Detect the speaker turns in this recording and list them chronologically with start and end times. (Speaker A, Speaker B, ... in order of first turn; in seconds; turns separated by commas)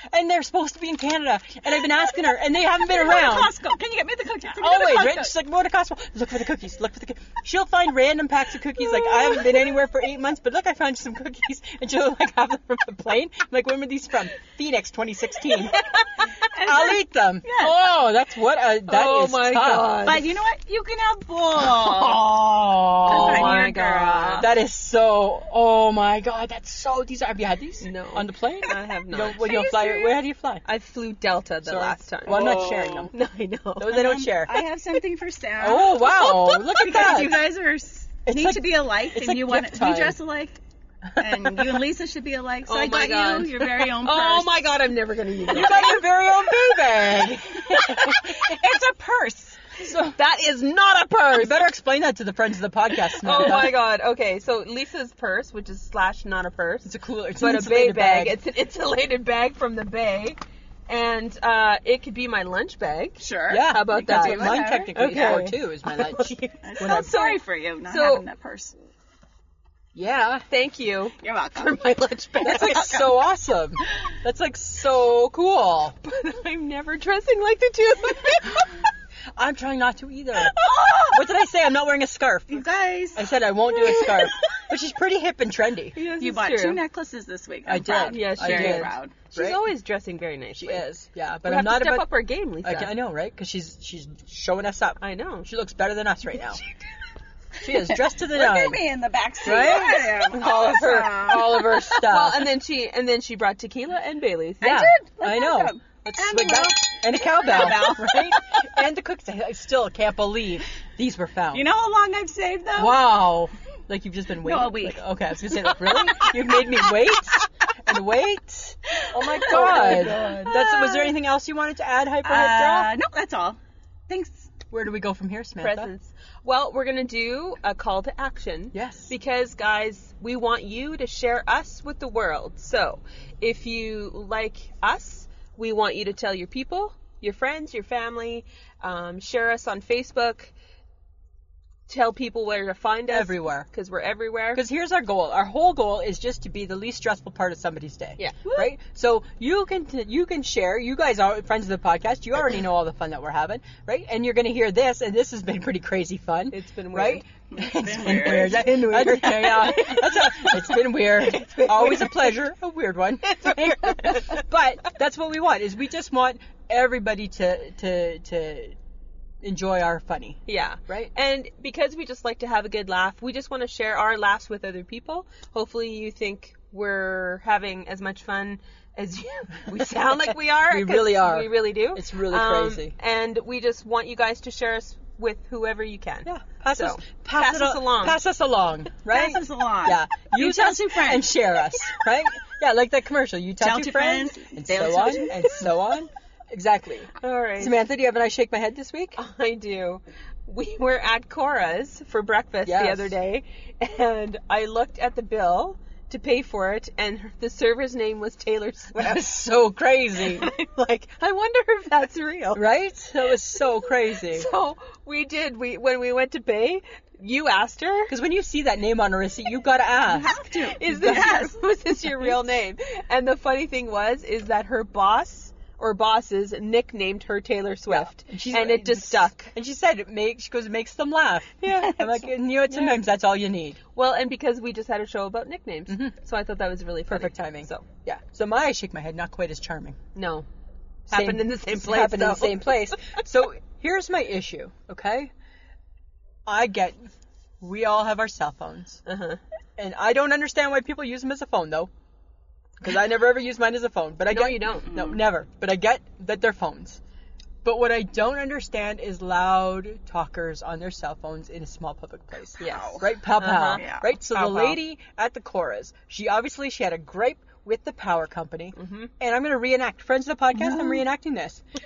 Speaker A: 0.1-3.5, Speaker B: 2.8-5.3, Speaker A: 4.6-16.0, Speaker B: 15.9-17.8, Speaker A: 16.6-20.0, Speaker C: 18.9-20.3, Speaker B: 20.0-24.5, Speaker A: 21.6-23.7, Speaker C: 23.1-24.5, Speaker A: 24.4-30.6, Speaker C: 27.8-29.6, Speaker B: 29.4-30.2, Speaker C: 30.6-32.6, Speaker A: 31.6-33.1, Speaker B: 32.3-33.1, Speaker C: 33.1-34.0, Speaker A: 33.8-34.6, Speaker B: 33.9-40.6, Speaker A: 35.6-37.5, Speaker A: 38.3-40.2, Speaker A: 41.1-41.8, Speaker B: 41.1-44.7, Speaker C: 42.7-46.0, Speaker A: 45.5-48.5, Speaker B: 45.6-46.0, Speaker B: 47.7-49.6, Speaker A: 49.8-50.2, Speaker C: 50.1-51.6, Speaker A: 51.3-53.8, Speaker C: 53.2-68.3, Speaker A: 56.9-58.4, Speaker B: 63.2-65.4, Speaker A: 63.5-67.2, Speaker B: 66.6-68.8, Speaker A: 70.0-70.5, Speaker C: 70.5-72.9, Speaker B: 71.2-73.2, Speaker A: 72.4-76.0, Speaker C: 76.0-78.7, Speaker A: 79.4-80.6, Speaker B: 80.4-81.2, Speaker A: 81.1-86.0, Speaker B: 82.5-83.3, Speaker C: 83.9-84.2, Speaker C: 86.0-86.8, Speaker B: 86.2-89.2, Speaker A: 87.7-89.6, Speaker C: 87.9-90.9, Speaker A: 90.6-92.1, Speaker C: 91.5-92.9, Speaker A: 92.6-96.6, Speaker C: 95.0-95.5, Speaker A: 97.6-98.8, Speaker B: 97.7-101.9, Speaker A: 99.4-102.5, Speaker C: 100.3-104.9, Speaker B: 104.6-108.4, Speaker A: 104.6-111.7, Speaker B: 111.5-113.1, Speaker A: 112.8-122.9, Speaker B: 114.4-115.0, Speaker B: 115.5-117.0, Speaker B: 119.0-121.1, Speaker C: 119.4-120.6, Speaker B: 122.2-124.5, Speaker A: 124.7-125.9, Speaker C: 125.6-140.5, Speaker A: 128.7-129.1, Speaker C: 141.9-144.6, Speaker A: 143.1-143.7, Speaker A: 144.6-168.8, Speaker B: 148.4-148.7, Speaker C: 156.5-157.2, Speaker B: 157.5-158.7, Speaker C: 158.3-162.3, Speaker C: 163.3-164.4, Speaker A: 169.4-171.1, Speaker C: 170.5-188.2, Speaker A: 179.8-182.9, Speaker A: 186.3-199.2, Speaker B: 189.1-191.3, Speaker B: 193.6-195.6, Speaker C: 197.2-197.8, Speaker C: 199.2-209.3, Speaker A: 202.7-203.1, Speaker A: 208.9-210.5, Speaker C: 210.2-212.6, Speaker A: 212.6-214.5, Speaker C: 214.3-218.1, Speaker A: 218.1-220.3, Speaker B: 220.1-221.6, Speaker C: 220.8-229.5, Speaker A: 220.9-221.4, Speaker A: 222.1-222.4, Speaker A: 227.9-233.8, Speaker C: 231.6-232.0, Speaker B: 231.7-232.3, Speaker C: 232.7-233.0, Speaker C: 233.9-237.9, Speaker A: 235.9-236.1, Speaker A: 237.1-240.0, Speaker C: 240.2-240.5, Speaker C: 241.1-242.7, Speaker A: 241.1-245.3, Speaker A: 246.5-247.1, Speaker A: 247.6-249.0, Speaker C: 249.1-249.4, Speaker A: 249.8-251.9, Speaker A: 252.8-257.0, Speaker C: 254.3-254.9, Speaker B: 254.9-255.2, Speaker A: 257.6-271.6, Speaker B: 262.6-263.1, Speaker C: 262.6-263.9, Speaker B: 263.7-264.8, Speaker C: 268.8-269.1, Speaker B: 270.6-271.0